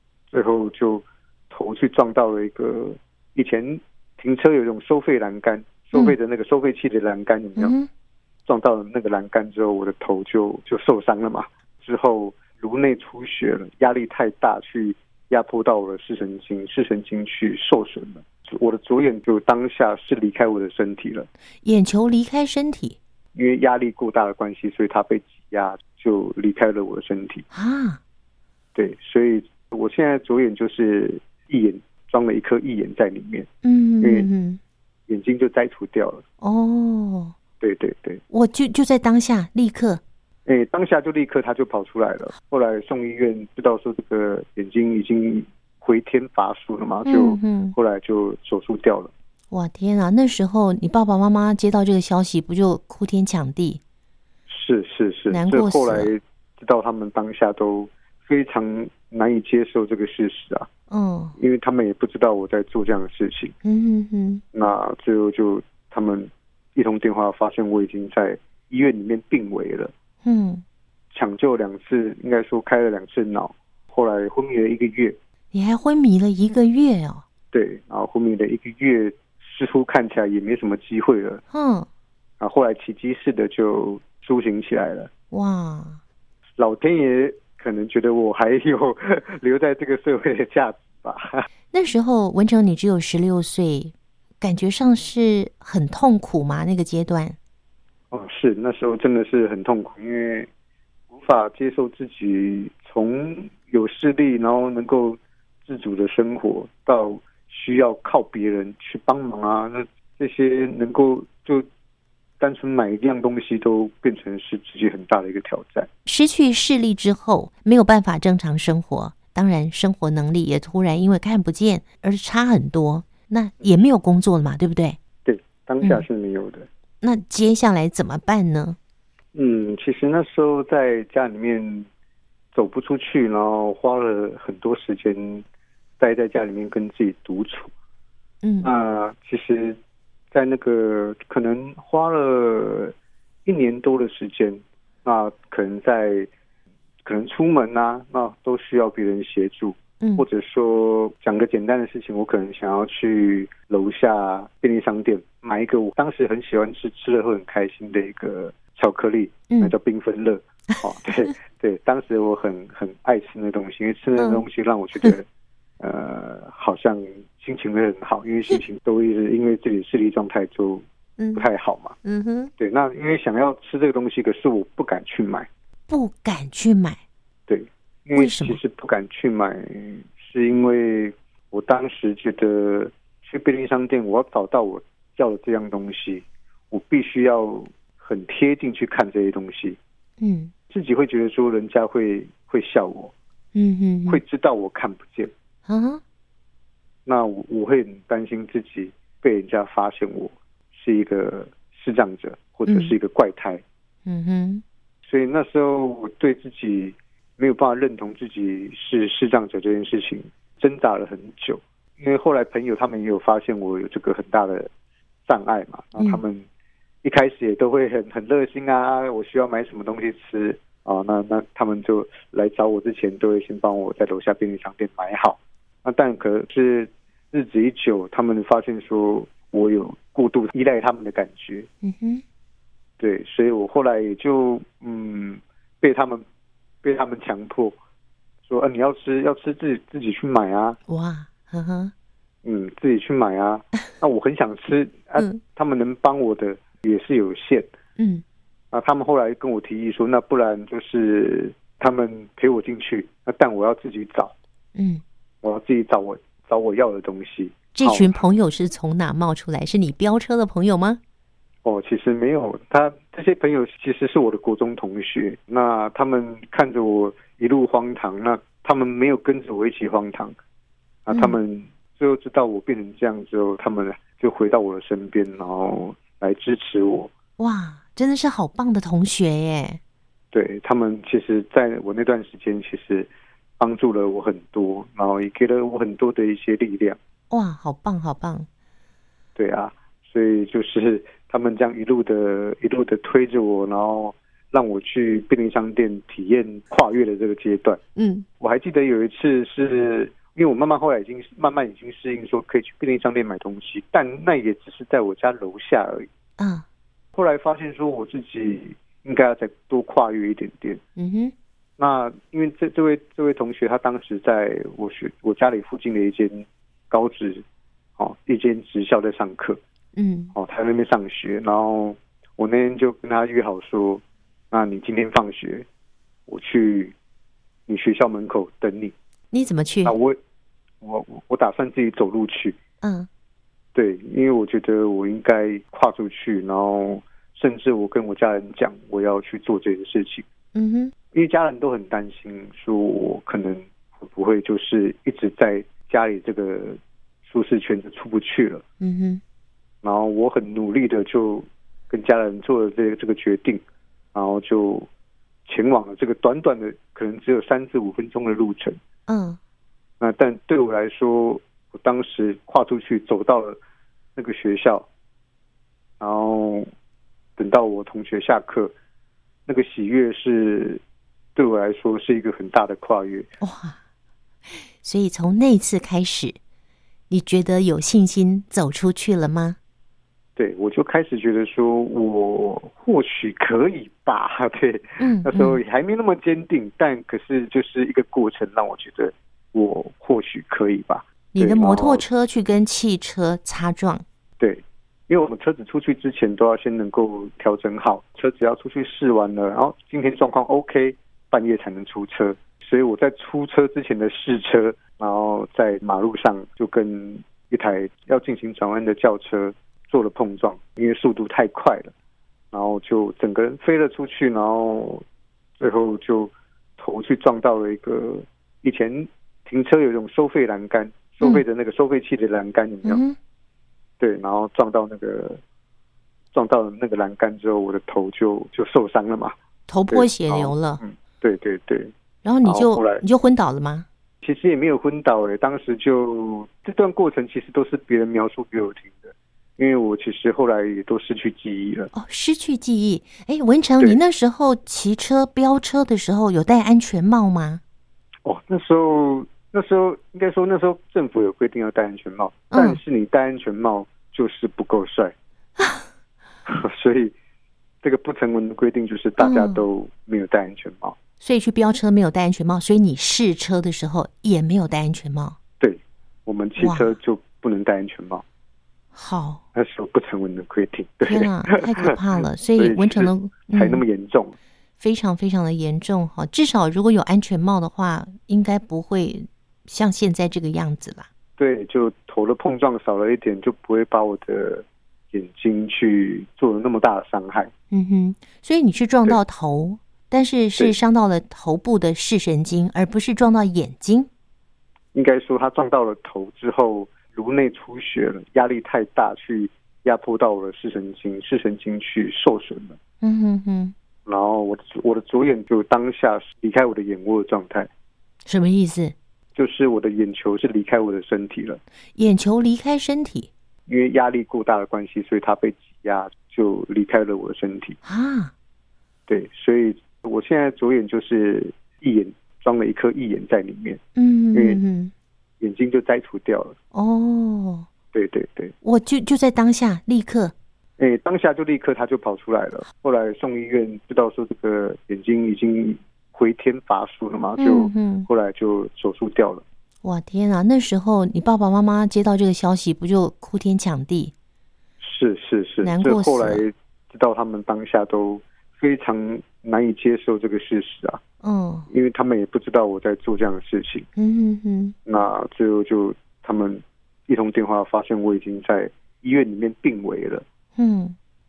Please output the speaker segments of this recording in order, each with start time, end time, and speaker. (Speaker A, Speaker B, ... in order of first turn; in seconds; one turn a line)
Speaker A: 0.3-7.7
Speaker B: 7.6-7.9
Speaker A: 8.4-21.3
Speaker B: 21.6-23.0
Speaker A: 23.3-27.4
Speaker B: 27.5-28.0
Speaker A: 28.7-33.5
Speaker B: 33.6-34.6
Speaker A: 34.0-34.3
Speaker A: 35.1-36.2
Speaker B: 36.4-37.4
Speaker A: 37.6-38.2
Speaker B: 38.3-40.0
Speaker A: 40.5-49.1
Speaker B: 47.0-47.7
Speaker B: 49.5-53.8
Speaker A: 54.5-60.7
Speaker B: 55.3-56.1
Speaker B: 60.9-61.4
Speaker A: 61.4-63.5
Speaker B: 63.6-64.4
Speaker A: 64.5-69.9
Speaker B: 70.2-70.6
Speaker A: 71.1-75.2
Speaker B: 75.5-77.2
Speaker A: 77.5-81.4
Speaker B: 81.5-81.9
Speaker A: 82.4-85.1
Speaker B: 85.3-86.0
Speaker A: 86.6-91.4
Speaker B: 91.7-97.4
Speaker A: 98.1-100.5
Speaker A: 101.1-111.7
Speaker A: 112.4-115.9
Speaker B: 116.0-125.0
Speaker A: 125.2-126.7
Speaker B: 127.0-128.8
Speaker A: 129.3-131.9
Speaker A: 132.5-135.4
Speaker A: 136.0-137.7
Speaker B: 138.4-138.7
Speaker A: 138.6-139.8
Speaker A: 140.3-142.9
Speaker A: 143.4-146.3
Speaker A: 147.0-165.2
Speaker B: 150.0-150.2
Speaker B: 164.2-164.4
Speaker A: 165.8-172.0
Speaker B: 171.2-171.5
Speaker B: 172.0-172.5
Speaker A: 172.6-175.5
Speaker B: 175.9-177.0
Speaker A: 177.5-189.8
Speaker B: 178.2-178.6
Speaker B: 190.2-190.5
Speaker A: 190.7-193.1
Speaker B: 193.5-194.2
Speaker A: 194.1-195.3
Speaker B: 195.7-196.0
Speaker A: 197.1-203.6
Speaker B: 202.7-202.9
Speaker B: 204.1-204.6
Speaker A: 205.1-214.7
Speaker A: 215.3-216.4
Speaker A: 217.0-231.7
Speaker B: 231.8-232.2
Speaker A: 233.0-236.2
Speaker A: 236.8-237.8
Speaker A: 238.4-240.8
Speaker B: 240.9-241.9
Speaker A: 242.4-247.7
Speaker B: 248.0-248.2
Speaker A: 248.7-254.3
Speaker B: 254.7-255.0
Speaker A: 255.4-258.3
Speaker B: 257.7-261.0
Speaker A: 261.6-270.4
Speaker A: 271.1-277.1
Speaker B: 271.1-271.4
Speaker B: 277.4-279.8
Speaker A: 280.3-287.0
Speaker B: 287.3-288.5
Speaker A: 289.4-297.8
Speaker B: 297.9-298.2
Speaker A: 298.4-306.1
Speaker B: 306.4-306.6
Speaker A: 307.1-310.8
Speaker B: 311.0-311.3
Speaker A: 311.8-317.4
Speaker A: 318.0-319.6
Speaker B: 319.9-320.3
Speaker A: 320.3-325.6
Speaker A: 326.3-326.9
Speaker A: 327.7-328.9
Speaker B: 329.3-329.9
Speaker A: 329.8-330.2
Speaker A: 330.8-332.6
Speaker B: 332.8-333.1
Speaker A: 333.7-340.3
Speaker B: 340.5-340.9
Speaker A: 341.1-348.6
Speaker B: 348.8-349.2
Speaker A: 349.8-354.9
Speaker A: 355.4-358.8
Speaker B: 359.1-359.4
Speaker A: 360.0-363.6
Speaker A: 364.1-364.9
Speaker A: 366.0-366.7
Speaker A: 367.4-368.7
Speaker A: 369.5-370.8
Speaker A: 371.4-373.3
Speaker B: 373.4-373.8
Speaker B: 374.8-376.4
Speaker B: 377.1-379.6
Speaker A: 380.4-392.0
Speaker B: 385.0-385.6
Speaker B: 391.3-394.0
Speaker A: 394.4-411.9
Speaker A: 412.5-415.0
Speaker A: 415.6-423.0
Speaker B: 422.8-423.2
Speaker A: 424.0-425.4
Speaker A: 426.3-429.4
Speaker B: 429.7-430.8
Speaker A: 429.9-431.9
Speaker B: 432.2-433.9
Speaker A: 432.4-433.0
Speaker A: 434.2-441.9
Speaker B: 441.9-447.6
Speaker A: 448.2-455.1
Speaker B: 452.5-452.8
Speaker B: 455.6-455.8
Speaker A: 456.4-457.1
Speaker A: 457.8-461.0
Speaker B: 459.2-459.6
Speaker B: 461.2-465.4
Speaker A: 465.6-468.2
Speaker B: 466.6-466.9
Speaker B: 468.9-469.4
Speaker A: 469.5-471.9
Speaker B: 471.1-473.8
Speaker A: 472.6-474.4
Speaker B: 474.8-481.1
Speaker A: 481.4-487.5
Speaker B: 487.7-494.1
Speaker A: 494.9-502.8
Speaker B: 503.0-503.7
Speaker A: 504.1-507.7
Speaker B: 508.2-508.9
Speaker A: 509.3-511.6
Speaker B: 511.9-513.3
Speaker A: 513.7-517.8
Speaker B: 517.8-518.3
Speaker A: 519.1-523.8
Speaker B: 524.0-524.9
Speaker A: 524.3-524.6
Speaker A: 525.4-526.5
Speaker B: 526.7-527.7
Speaker A: 527.9-528.5
Speaker B: 528.6-530.3
Speaker A: 530.8-539.4
Speaker B: 537.4-538.1
Speaker B: 539.8-544.1
Speaker A: 544.8-551.0
Speaker B: 545.6-546.4
Speaker B: 551.2-551.7
Speaker A: 551.7-553.9
Speaker B: 554.0-554.7
Speaker A: 554.9-560.2
Speaker B: 560.5-561.0